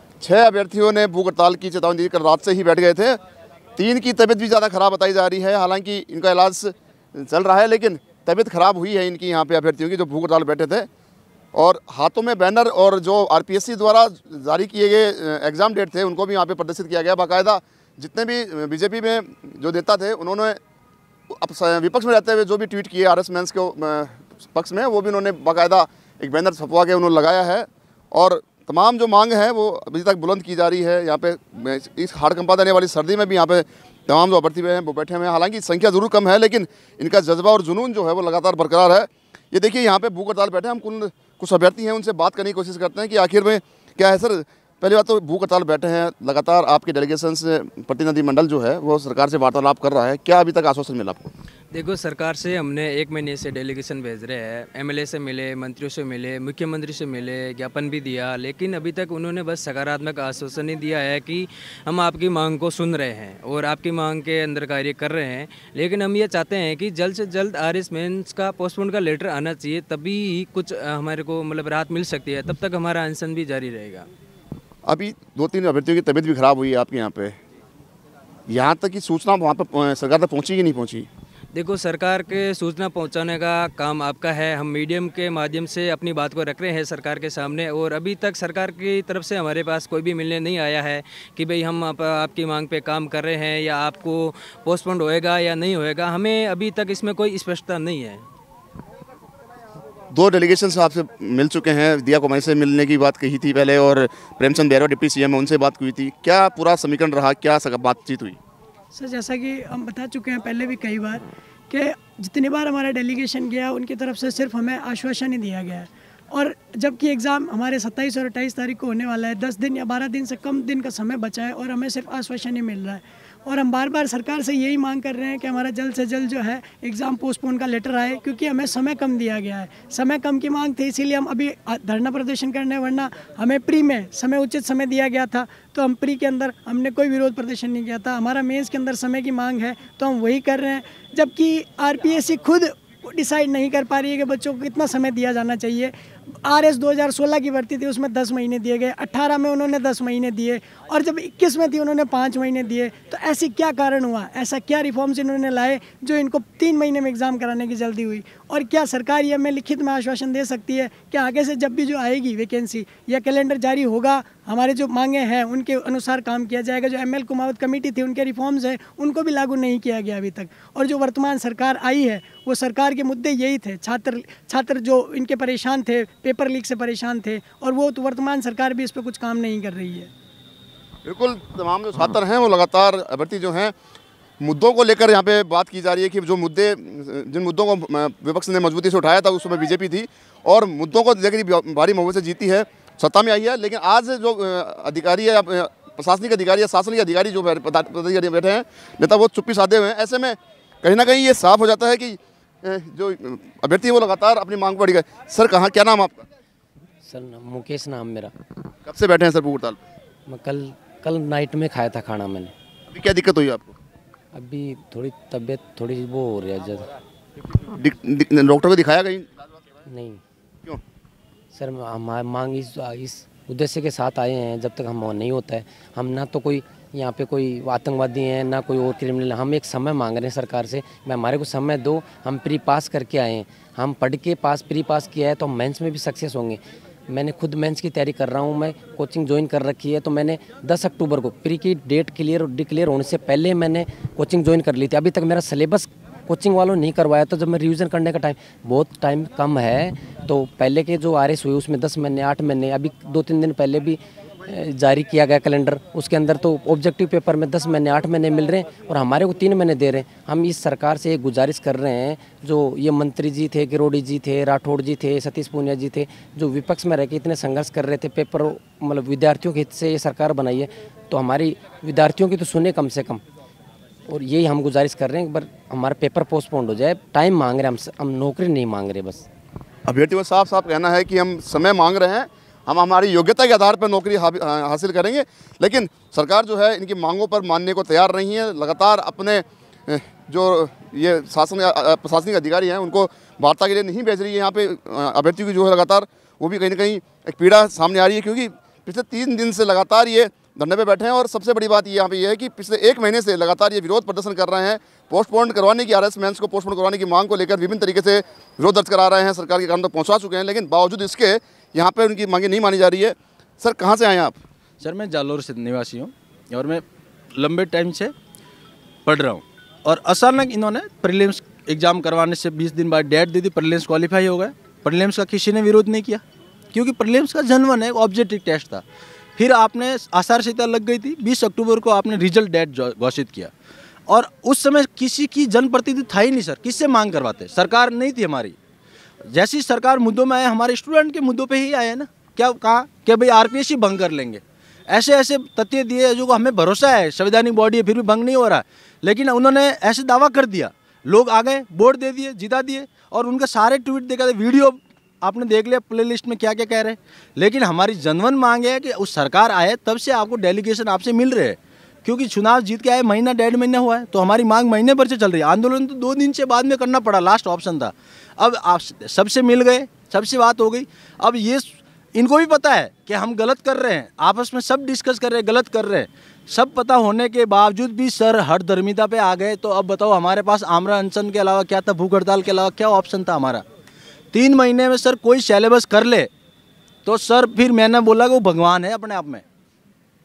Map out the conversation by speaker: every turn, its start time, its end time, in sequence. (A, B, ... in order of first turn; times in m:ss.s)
0:00.2-0:03.2 A
0:03.8-0:10.9 A
0:11.5-0:20.6 A
0:21.3-0:51.3 A
0:51.7-1:14.1 B
1:14.9-1:17.4 A
1:18.5-1:21.1 A
1:21.5-1:38.2 B
1:40.1-1:48.4 A
1:48.9-2:25.9 C
2:26.4-3:00.1 C
3:01.1-3:03.7 A
3:04.4-3:26.2 A
3:27.1-3:28.3 D
3:28.9-3:29.8 A
3:30.3-3:32.5 D
3:32.9-3:33.7 A
3:34.3-3:36.9 D
3:37.6-3:39.3 A
3:39.9-3:40.2 D
3:41.5-4:33.2 D
4:34.1-4:39.3 D
4:39.9-5:14.4 A
5:14.8-5:16.8 E
5:17.4-5:18.1 E
5:19.0-5:28.8 E
5:29.4-5:33.5 E
5:34.1-5:38.6 E
5:39.3-6:23.6 E
6:24.3-6:26.3 E
6:27.0-6:29.4 E